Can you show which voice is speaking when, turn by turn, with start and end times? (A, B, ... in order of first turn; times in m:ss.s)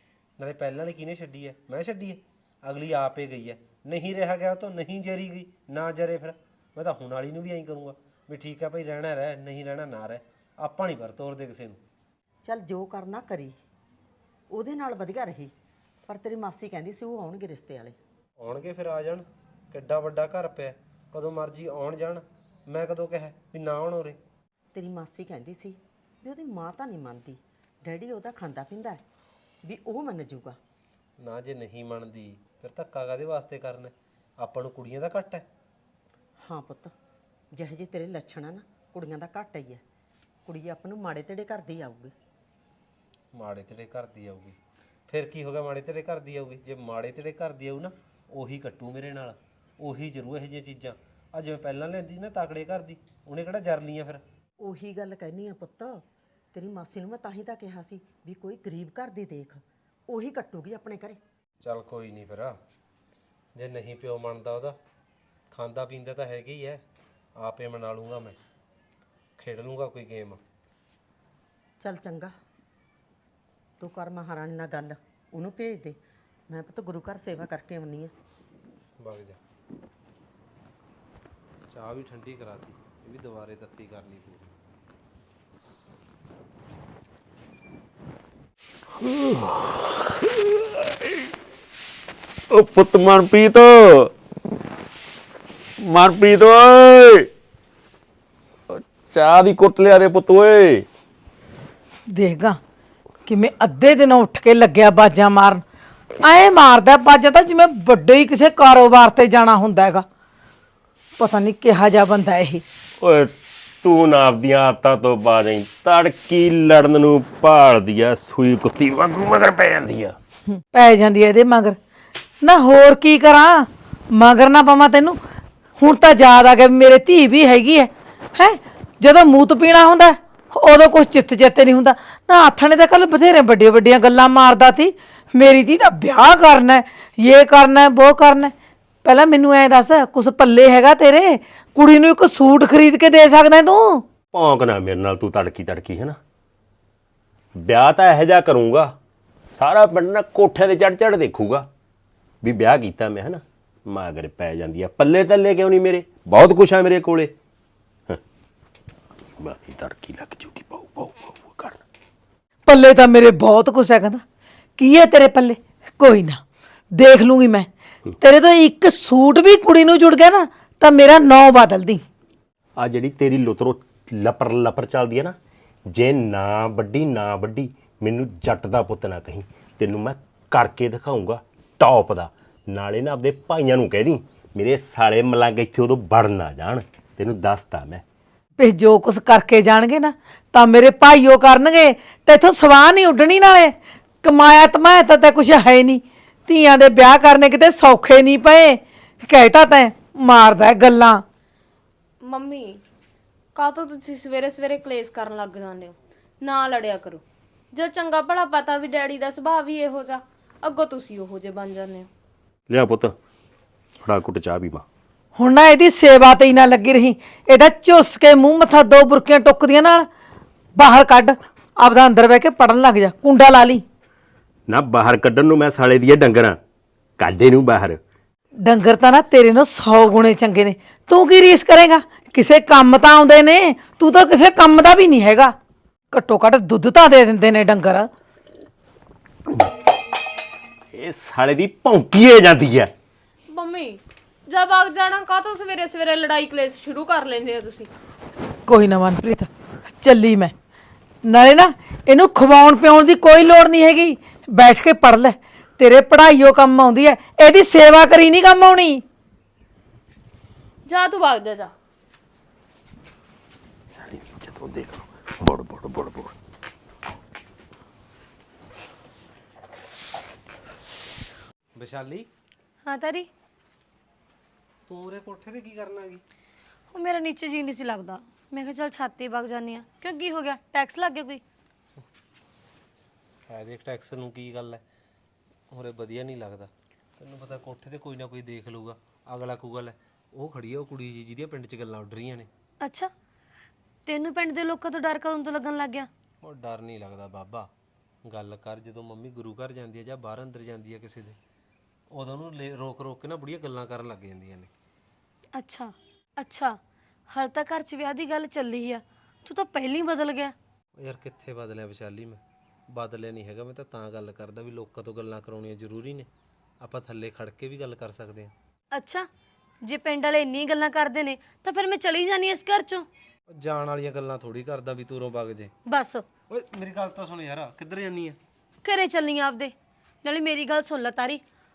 0:00.4-0:11.8 A
0:12.4-0:13.6 B
0:14.5-0:15.5 B
0:16.1-0:18.0 B
0:18.4-0:24.2 A
0:24.7-0:29.0 B
0:29.6-0:30.6 B
0:31.2-0:35.4 A
0:36.4-0:36.9 B
0:37.5-0:39.8 B
0:40.5-0:42.1 B
0:43.3-0:44.6 A
0:45.1-0:54.2 A
0:54.6-1:01.2 B
1:01.6-1:02.6 A
1:03.6-1:04.8 A
1:05.5-1:06.8 A
1:07.4-1:08.4 A
1:09.4-1:10.4 A
1:11.8-1:12.3 B
1:13.8-1:16.0 B
1:16.5-1:18.1 B
1:19.0-1:19.4 A
1:21.7-1:24.5 A
1:29.0-1:31.2 C
1:32.5-1:34.1 C
1:35.8-1:37.3 C
1:38.7-1:40.9 C
1:42.1-1:42.6 D
1:43.2-1:45.6 D
1:46.2-1:50.1 D
1:51.2-1:52.6 D
1:53.0-2:00.2 C
2:00.6-2:01.8 D
2:02.4-2:05.2 D
2:05.8-2:18.5 D
2:19.0-2:24.1 D
2:24.3-2:26.2 C
2:27.6-2:28.9 C
2:29.6-2:31.7 C
2:32.4-2:37.3 C
2:39.4-2:41.8 C
2:42.7-2:44.2 D
2:44.8-2:46.4 D
2:46.9-2:47.7 D
2:48.2-2:52.0 D
2:52.8-2:55.4 C
2:55.9-3:08.0 C
3:08.6-3:21.2 D
3:22.2-3:22.8 E
3:23.6-3:32.1 E
3:32.7-3:33.2 C
3:34.0-3:34.8 C
3:35.4-3:40.1 D
3:40.8-3:43.8 D
3:44.7-3:46.6 C
3:47.2-3:48.0 C
3:48.6-3:55.6 D
3:56.1-3:58.1 D
4:00.9-4:02.9 C
4:03.5-4:07.9 E
4:08.7-4:10.5 D
4:11.2-4:19.0 D
4:20.9-4:21.7 E
4:23.9-4:26.4 C
4:31.8-4:32.3 A
4:32.8-4:33.3 F
4:34.9-4:36.2 A
4:36.9-4:41.4 F
4:43.5-4:44.8 A
4:45.7-4:52.5 A
4:52.8-4:53.1 F
4:54.1-4:56.1 F
4:56.4-4:57.7 A
4:58.2-5:01.4 A
5:02.1-5:04.7 A
5:05.6-5:06.8 F
5:07.3-5:10.6 F
5:11.0-5:16.3 A
5:16.8-5:18.5 A
5:18.9-5:19.3 F
5:19.8-5:23.1 F
5:23.5-5:25.7 A
5:25.9-5:26.2 F
5:26.5-5:28.4 A
5:28.8-5:31.4 F